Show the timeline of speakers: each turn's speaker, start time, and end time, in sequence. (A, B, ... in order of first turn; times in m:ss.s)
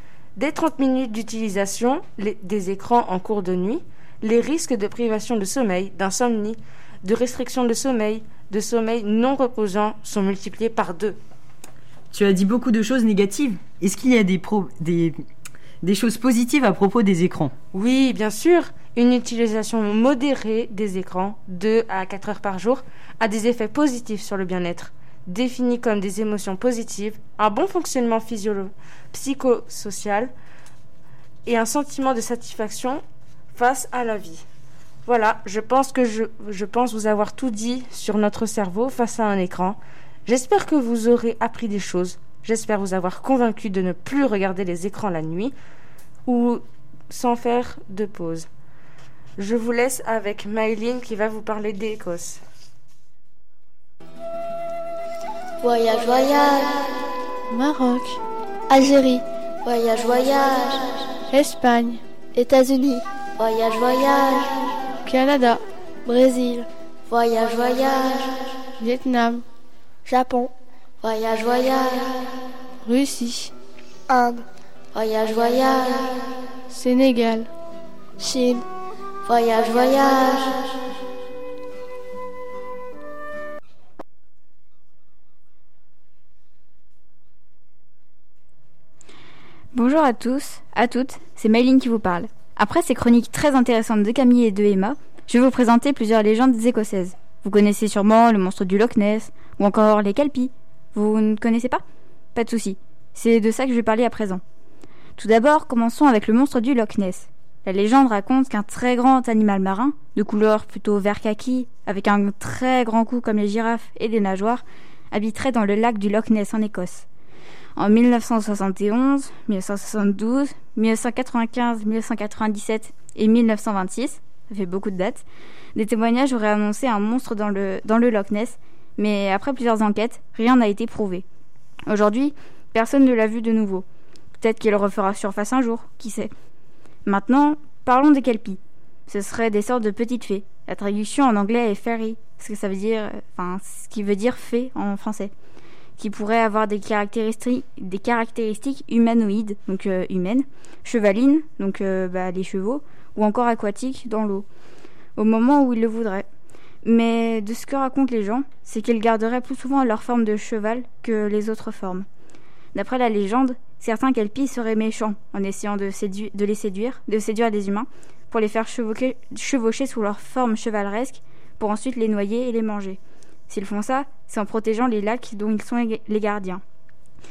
0:00.4-0:11.2 A
0:12.1-0:15.2 B
0:15.8-0:17.5 B
0:17.7-0:30.3 A
0:31.4-0:33.0 A
0:33.5-0:34.4 A
0:35.0-0:45.6 A
0:46.3-0:48.5 A
0:49.4-0:52.4 A
0:55.6-0:57.0 C
0:57.5-0:58.2 D
0:58.7-1:01.0 C
1:01.3-1:02.0 D
1:02.4-1:04.8 C
1:05.1-1:05.5 D
1:06.1-1:08.6 C
1:08.8-1:09.4 D
1:10.1-1:10.5 C
1:11.0-1:12.4 C
1:12.8-1:13.5 D
1:14.1-1:16.4 C
1:16.7-1:17.5 D
1:18.2-1:18.6 C
1:19.2-1:20.8 C
1:29.7-1:41.8 E
1:42.4-1:44.4 E
1:45.2-1:57.1 E
1:57.8-2:11.2 E
2:11.9-2:13.8 E
2:14.4-2:16.3 E
2:17.0-2:25.3 E
2:26.0-2:34.5 E
2:35.2-2:36.3 E
2:36.8-2:42.1 E
2:42.7-2:56.6 E